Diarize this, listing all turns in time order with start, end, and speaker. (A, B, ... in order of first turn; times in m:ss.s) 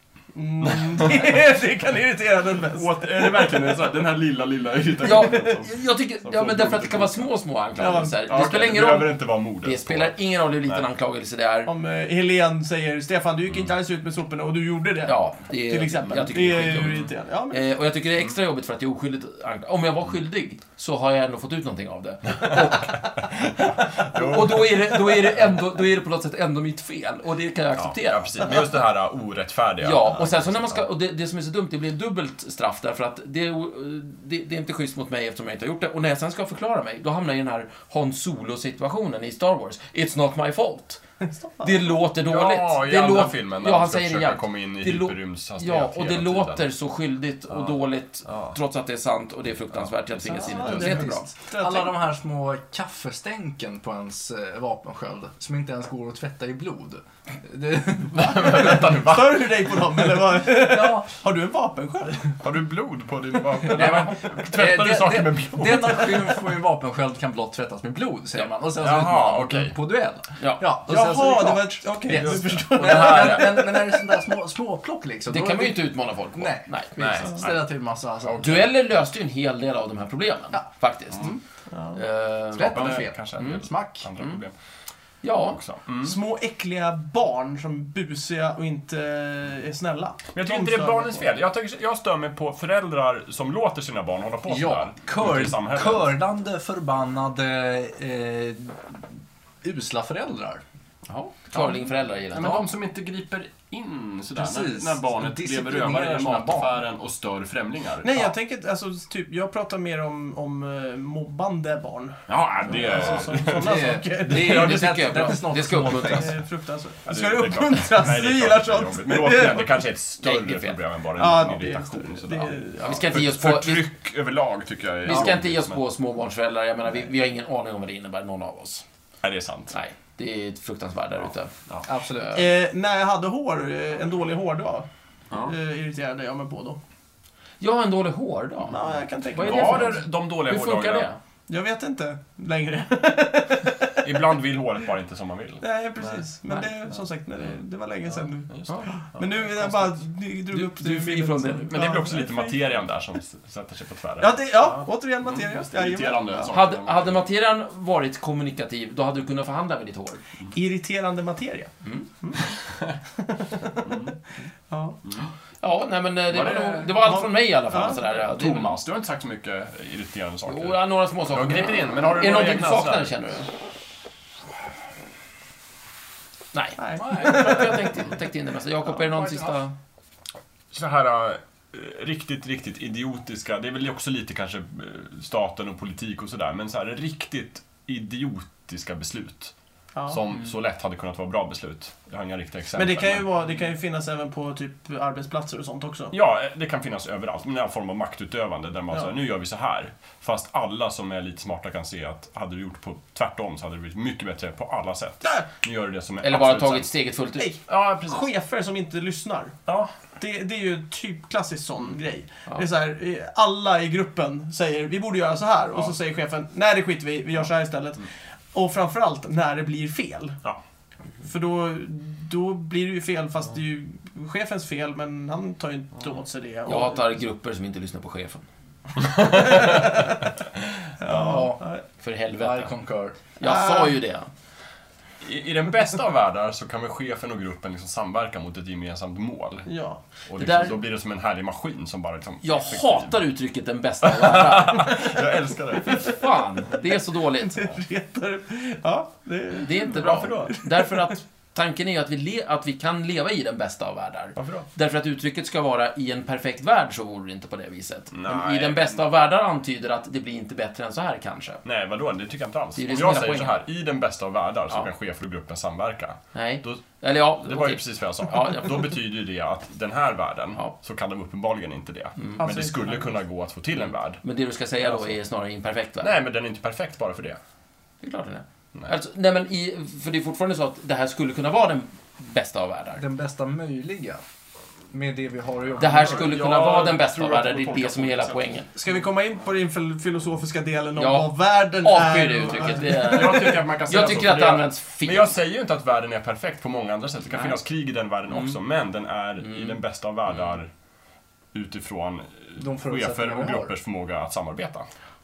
0:00.3-0:03.7 A
0:00.6-0:01.4 B
0:02.7-0:07.3 B
0:05.0-0:11.7 C
0:07.8-0:08.2 A
0:07.8-0:10.2 B
0:11.7-0:17.7 A
0:15.1-0:28.6 C
0:16.6-0:17.1 B
0:24.0-0:24.8 B
0:27.8-0:30.9 B
0:29.8-0:41.0 C
0:41.2-0:41.9 A
0:41.6-0:51.3 C
0:42.2-0:46.7 B
0:47.5-0:48.6 B
0:49.7-0:50.4 B
0:50.3-0:52.0 A
0:50.6-0:59.0 D
0:58.1-0:59.5 B
0:58.9-1:02.4 A
1:00.6-1:01.0 D
1:02.4-1:06.4 B
1:03.7-1:18.6 D
1:08.8-1:09.8 B
1:10.4-1:10.6 C
1:10.9-1:14.2 A
1:12.1-1:13.4 B
1:12.8-1:13.5 C
1:15.3-1:17.4 C
1:17.0-1:17.6 B
1:18.2-1:18.7 B
1:18.4-1:21.4 C
1:21.2-1:22.0 A
1:21.9-1:23.6 C
1:22.5-1:24.1 D
1:22.6-1:24.5 B
1:25.2-1:25.6 C
1:25.5-1:26.2 B
1:26.0-1:31.2 A
1:30.3-1:36.2 B
1:34.5-1:39.0 D
1:39.6-1:40.6 D
1:41.1-1:42.6 C
1:41.5-1:41.8 B
1:42.3-1:48.3 B
1:44.4-1:46.8 D
1:48.0-1:55.2 A
1:52.3-1:55.4 B
1:52.8-1:56.4 D
1:54.3-1:56.3 C
1:56.0-1:59.8 A
1:57.1-2:05.8 B
2:00.2-2:00.8 C
2:01.2-2:03.2 A
2:02.8-2:03.9 C
2:05.0-2:08.8 C
2:09.2-2:09.7 B
2:09.7-2:11.5 C
2:11.9-2:12.5 D
2:12.4-2:14.9 A
2:15.4-2:16.8 A
2:17.6-2:18.8 C
2:18.7-2:20.0 A
2:19.3-2:21.2 C
2:19.3-2:21.1 B
2:21.5-2:24.2 A
2:24.0-2:26.2 B
2:25.6-2:32.6 A
2:28.1-2:30.0 B
2:30.5-2:31.8 C
2:31.7-2:37.2 B
2:34.2-2:36.5 A
2:36.5-2:40.2 C
2:40.5-2:42.6 A
2:42.7-2:43.0 B
2:43.1-2:44.0 A
2:43.8-2:44.2 B
2:44.7-2:45.0 A
2:45.6-2:48.8 C
2:46.3-2:47.3 B
2:47.0-2:48.0 A
2:47.8-2:53.2 B
2:50.5-2:53.5 C
2:56.5-2:59.7 C
2:56.8-2:57.8 A
2:57.0-2:57.7 D
2:58.9-2:59.6 D
3:00.7-3:09.5 B
3:10.0-3:10.2 A
3:10.1-3:13.3 B
3:12.8-3:16.1 A
3:16.1-3:26.9 B
3:26.2-3:27.5 C
3:27.4-3:29.6 A
3:27.7-3:28.3 B
3:30.2-3:40.4 A
3:41.2-3:47.0 A
3:46.7-3:48.4 C
3:49.2-3:49.6 B
3:49.2-3:50.3 A
3:51.0-3:51.8 A
3:51.1-3:51.6 D
3:52.0-3:52.7 C
3:52.4-3:53.2 D
3:53.4-3:54.3 C
3:53.4-3:54.0 A
3:55.2-3:59.7 B
3:59.7-4:00.0 A
4:00.3-4:03.2 B
4:00.3-4:00.8 C
4:02.4-4:05.2 C
4:04.0-4:06.2 B
4:05.9-4:07.7 C
4:07.3-4:11.1 A
4:09.5-4:21.6 C
4:09.9-4:10.6 B
4:14.4-4:14.7 B
4:18.1-4:19.0 B
4:21.6-4:26.8 B
4:22.8-4:23.6 C
4:26.3-4:28.9 C
4:27.4-4:34.2 B
4:32.2-4:32.4 C
4:32.4-4:33.1 A
4:34.2-4:36.1 C
4:34.8-4:35.1 B
4:36.0-4:37.4 B
4:38.0-4:43.0 C
4:43.0-4:44.2 D
4:44.9-4:46.3 D
4:45.8-4:48.5 B
4:45.8-4:48.7 C
4:48.8-4:53.5 A
4:51.0-4:55.4 C
4:52.8-5:00.7 B
4:57.3-4:57.6 C
4:58.3-4:58.6 C
4:59.4-4:59.8 C
5:01.5-5:04.9 B
5:02.6-5:03.7 D